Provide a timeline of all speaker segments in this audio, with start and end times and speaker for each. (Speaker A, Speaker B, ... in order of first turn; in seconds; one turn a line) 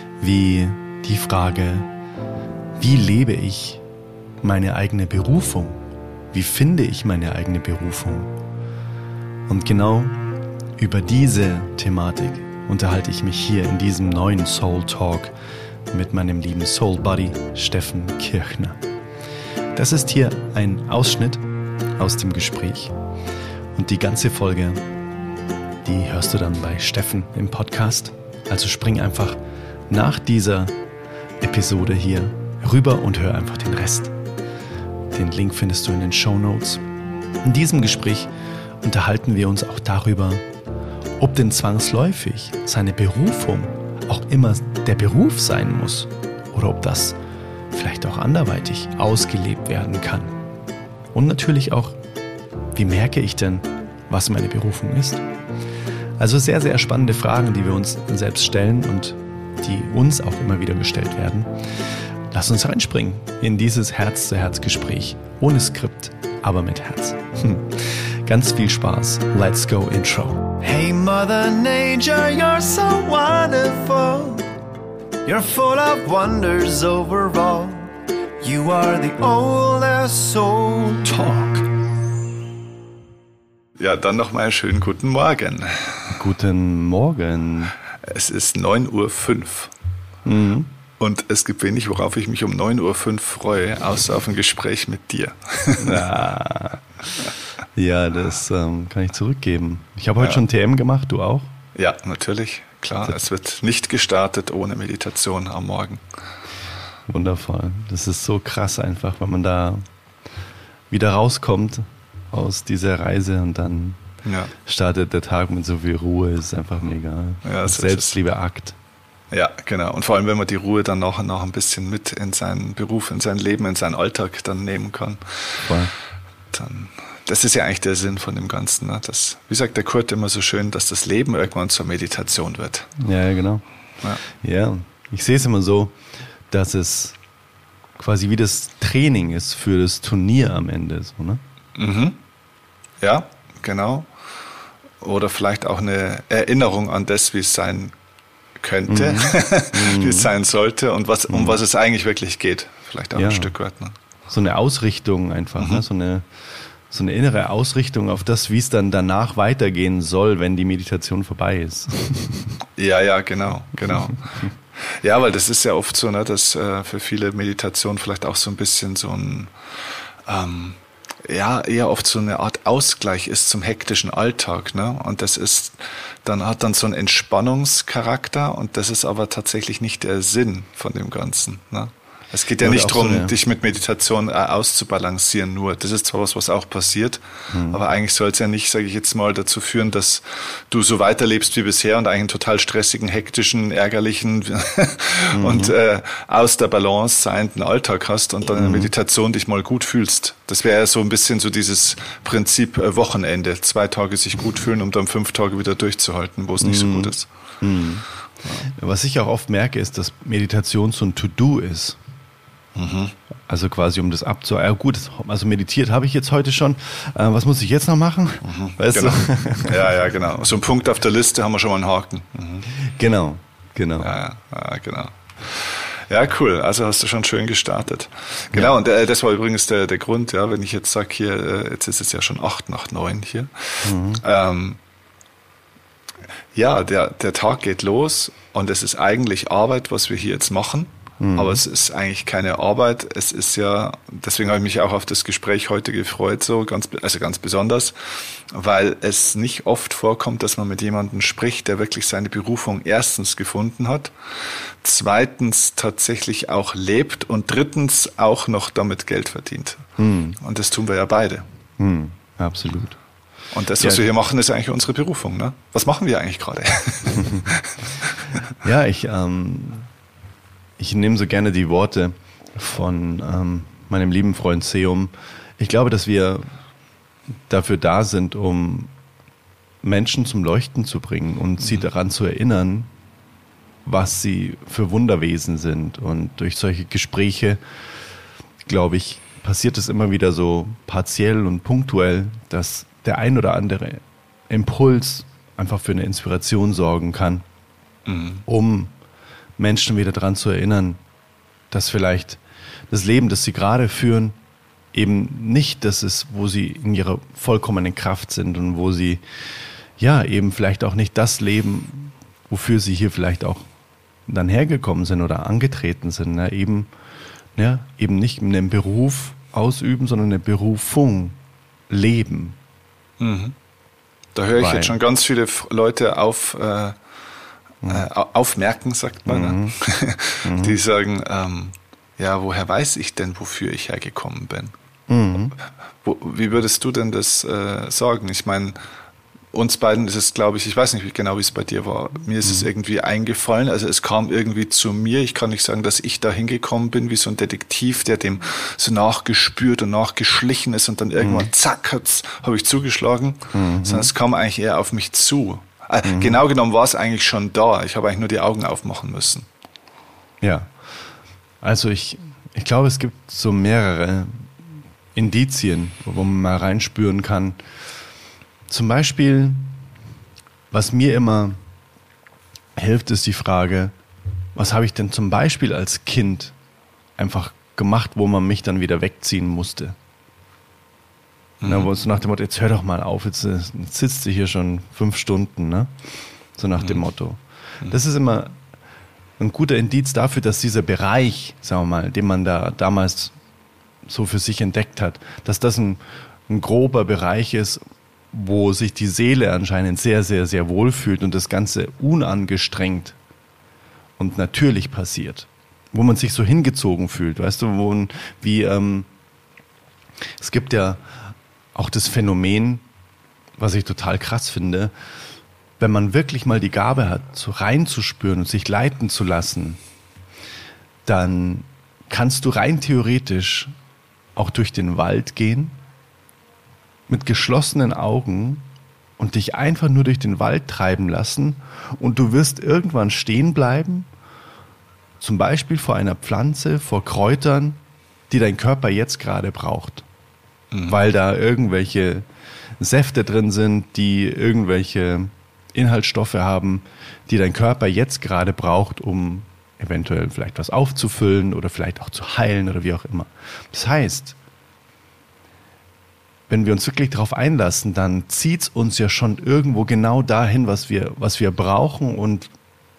Speaker A: 0.2-1.9
Speaker A: 2.8-3.8
Speaker A: 4.4-8.3
Speaker A: 9.5-10.2
Speaker A: 10.8-15.3
Speaker A: 15.9-18.8
Speaker A: 19.7-21.4
Speaker A: 22.0-22.9
Speaker A: 23.7-24.8
Speaker A: 25.8-29.4
Speaker A: 29.9-30.7
Speaker A: 31.4-34.1
Speaker A: 35.1-36.8
Speaker A: 37.4-38.3
Speaker A: 38.8-40.4
Speaker A: 41.2-47.2
Speaker A: 47.7-50.3
Speaker A: 51.1-52.0
Speaker A: 52.8-55.2
Speaker A: 56.2-61.5
Speaker A: 62.3-74.3
Speaker A: 75.2-77.7
Speaker A: 78.4-81.7
Speaker B: 83.8-86.1
Speaker A: 86.1-87.7
Speaker B: 88.0-89.7
Speaker A: 90.2-90.7
Speaker B: 91.0-96.0
Speaker A: 95.8-101.5
Speaker B: 100.2-100.4
Speaker B: 101.7-106.0
Speaker A: 107.1-109.8
Speaker A: 110.9-114.0
Speaker B: 114.2-114.5
Speaker A: 114.7-118.8
Speaker B: 117.4-118.2
Speaker B: 119.3-125.6
Speaker A: 125.6-125.9
Speaker B: 126.5-132.9
Speaker A: 133.0-133.6
Speaker A: 134.2-136.0
Speaker A: 136.5-137.2
Speaker A: 138.0-141.4
Speaker B: 141.8-142.2
Speaker B: 143.0-144.1
Speaker B: 145.0-147.9
Speaker B: 148.6-153.9
Speaker A: 148.9-150.3
Speaker A: 151.3-151.6
Speaker A: 153.2-153.5
Speaker A: 154.3-156.2
Speaker B: 155.6-155.8
Speaker A: 156.9-162.5
Speaker B: 162.8-164.2
Speaker A: 163.8-164.4
Speaker B: 164.8-169.5
Speaker B: 170.2-207.3
Speaker A: 182.6-183.4
Speaker A: 187.5-187.8
Speaker A: 195.3-195.8
Speaker A: 198.5-198.9
Speaker A: 206.6-208.1
Speaker A: 208.7-212.0
Speaker B: 212.7-213.1
Speaker A: 213.5-219.9
Speaker B: 218.4-222.7
Speaker A: 222.7-224.2
Speaker B: 224.0-234.8
Speaker A: 233.8-234.2
Speaker B: 236.5-259.8
Speaker A: 241.2-241.6
Speaker A: 260.0-260.4
Speaker B: 260.4-261.4
Speaker A: 261.8-263.0
Speaker B: 263.5-268.4
Speaker A: 263.8-264.0
Speaker A: 267.1-267.4
Speaker A: 268.6-269.9
Speaker A: 270.8-276.4
Speaker A: 277.5-278.9
Speaker A: 279.8-282.9
Speaker B: 281.6-281.9
Speaker A: 283.8-287.6
Speaker A: 288.6-297.4
Speaker B: 298.1-298.4
Speaker A: 298.4-298.9
Speaker A: 299.6-301.0
Speaker A: 301.7-304.3
Speaker A: 304.9-309.2
Speaker A: 310.0-313.7
Speaker A: 314.3-316.9
Speaker A: 317.6-321.4
Speaker A: 321.9-322.6
Speaker B: 323.2-323.5
Speaker B: 324.3-327.0
Speaker A: 324.6-325.0
Speaker B: 327.9-334.7
Speaker A: 329.2-329.8
Speaker A: 330.4-330.8
Speaker A: 335.1-335.6
Speaker B: 336.0-338.8
Speaker B: 339.5-359.5
Speaker A: 342.4-342.7
Speaker A: 351.2-351.5
Speaker A: 353.5-354.1
Speaker A: 356.0-356.4
Speaker A: 360.4-360.7
Speaker A: 361.6-364.6
Speaker A: 365.1-367.6
Speaker A: 368.7-369.8
Speaker A: 370.7-371.6
Speaker A: 372.8-373.9
Speaker A: 374.5-376.5
Speaker A: 377.2-379.9
Speaker B: 381.6-381.9
Speaker A: 381.6-385.9
Speaker A: 386.6-388.6
Speaker A: 389.4-393.3
Speaker A: 394.1-397.8
Speaker A: 398.3-403.1
Speaker A: 404.2-409.1
Speaker A: 410.4-411.0
Speaker A: 411.7-412.8
Speaker A: 413.6-414.9
Speaker A: 415.8-419.8
Speaker A: 421.1-423.7
Speaker A: 424.4-425.8
Speaker A: 427.1-428.7
Speaker A: 429.2-434.1
Speaker A: 435.2-437.8
Speaker A: 438.3-440.1
Speaker B: 440.7-441.0
Speaker A: 440.9-442.2
Speaker A: 442.8-454.4
Speaker A: 456.5-462.5